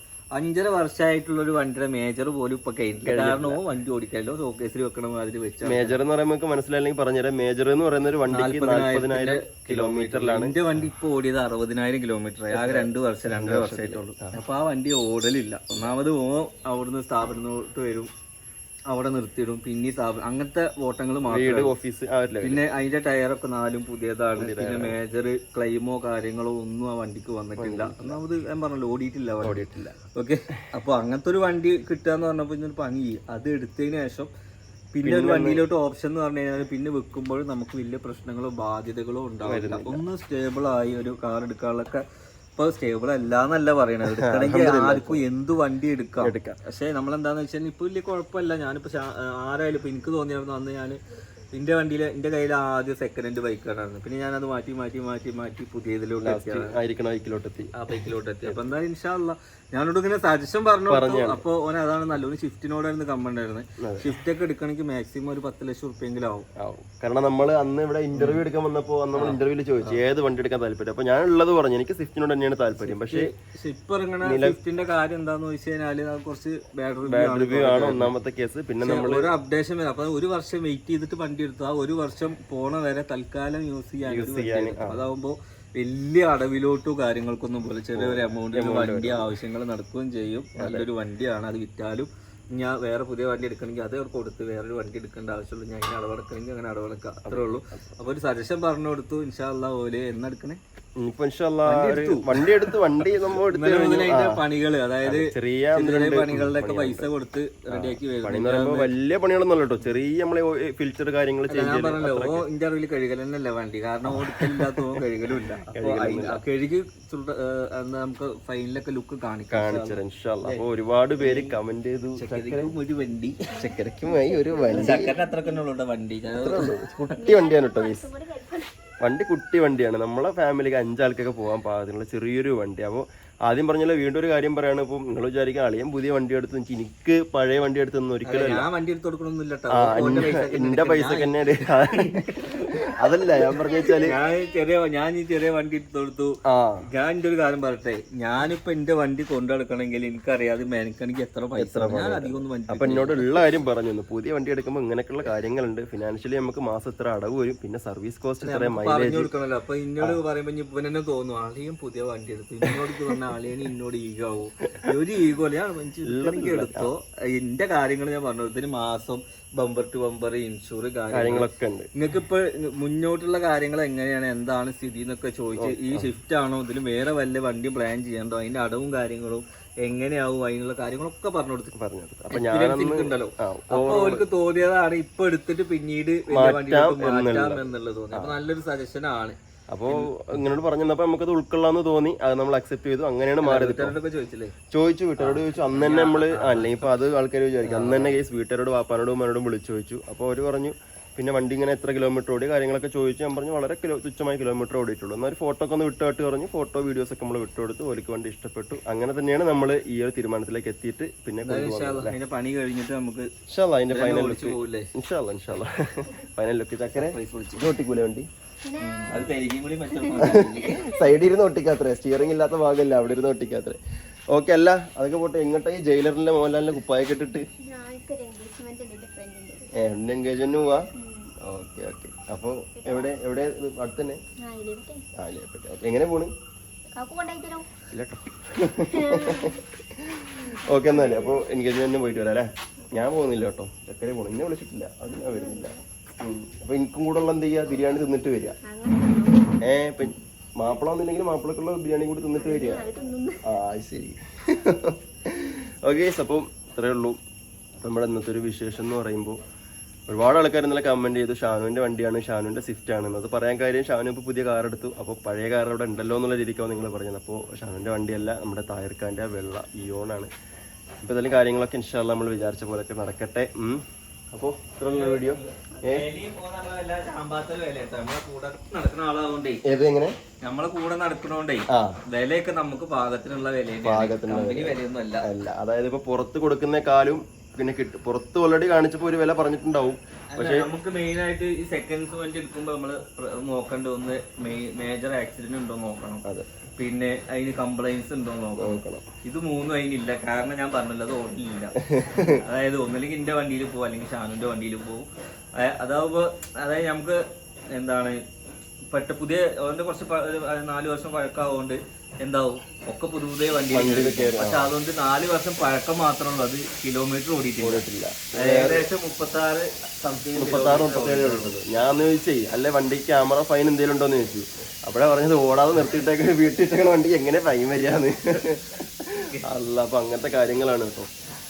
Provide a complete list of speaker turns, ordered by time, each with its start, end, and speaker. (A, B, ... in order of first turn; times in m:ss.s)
0:00.3-0:06.0 A
0:03.0-0:03.6 B
0:05.6-0:10.6 B
0:08.3-0:18.1 A
0:12.5-0:14.4 B
0:18.9-0:21.7 A
0:21.3-0:22.6 B
0:22.4-0:34.3 A
0:24.4-0:25.0 B
0:27.6-0:28.2 B
0:29.4-0:30.0 B
0:34.9-0:42.0 A
0:35.0-0:35.6 B
0:39.4-0:40.0 B
0:42.6-0:51.0 A
0:44.1-0:45.2 B
0:46.2-0:46.6 B
0:51.5-0:56.8 A
0:56.2-0:57.7 B
0:57.7-1:06.5 A
1:00.9-1:01.4 B
1:03.8-1:04.1 B
1:06.6-1:13.3 B
1:08.1-1:08.4 A
1:09.1-1:10.0 A
1:12.8-1:18.2 A
1:14.2-1:14.6 B
1:17.1-1:19.3 B
1:18.8-1:40.6 A
1:24.0-1:25.0 B
1:28.0-1:29.3 B
1:30.6-1:30.9 B
1:37.2-1:37.8 B
1:41.0-1:44.4 B
1:41.6-1:48.9 A
1:45.0-1:47.1 B
1:47.7-1:52.4 B
1:51.5-2:00.7 A
1:54.0-1:55.0 B
1:55.7-1:56.4 B
1:59.5-2:02.7 B
2:01.2-2:01.6 A
2:02.2-2:04.1 A
2:03.5-2:05.6 C
2:03.7-2:05.2 B
2:04.7-2:06.8 A
2:06.4-2:08.1 B
2:07.1-2:08.9 C
2:09.0-2:18.7 B
2:18.2-2:26.4 A
2:19.7-2:24.2 B
2:23.6-2:24.5 C
2:26.5-2:26.8 B
2:26.9-2:33.5 A
2:31.6-2:39.3 B
2:38.4-3:01.8 A
2:42.7-2:43.2 B
2:46.1-2:46.9 B
2:51.1-2:51.9 B
2:55.6-2:56.1 B
3:01.8-3:04.3 B
3:02.3-3:10.5 A
3:06.3-3:08.4 B
3:09.7-3:14.0 B
3:13.4-3:14.6 A
3:14.7-3:32.2 B
3:15.2-3:17.0 A
3:17.6-3:18.2 A
3:31.4-3:33.3 A
3:33.5-3:38.3 B
3:33.9-3:34.9 A
3:36.9-3:37.8 A
3:38.6-3:39.4 C
3:38.8-3:40.9 A
3:40.0-3:41.2 C
3:40.2-3:43.8 B
3:44.3-3:47.5 B
3:47.6-3:49.7 C
3:49.8-3:50.8 B
3:51.0-3:51.4 C
3:51.4-3:54.2 B
3:52.8-3:53.2 C
3:54.4-3:55.1 C
3:55.2-3:56.3 B
3:56.9-3:57.7 C
3:57.9-4:08.6 B
3:58.9-3:59.6 C
4:00.7-4:01.4 C
4:05.2-4:05.8 C
4:08.6-4:09.8 C
4:09.6-4:12.9 B
4:12.3-4:13.5 C
4:13.4-4:17.2 B
4:17.8-4:19.4 B
4:20.1-4:30.3 B
4:31.0-4:36.1 B
4:34.9-4:39.6 A
4:39.6-4:40.1 B
4:40.4-4:45.3 A
4:41.7-4:42.0 B
4:43.8-4:50.7 B
4:50.3-4:56.2 A
4:56.8-5:08.2 A
4:58.6-4:59.1 B
5:01.9-5:02.4 B
5:08.9-5:21.7 A
5:13.7-5:14.7 B
5:17.6-5:18.8 B
5:20.4-5:31.1 B
5:29.1-5:29.5 A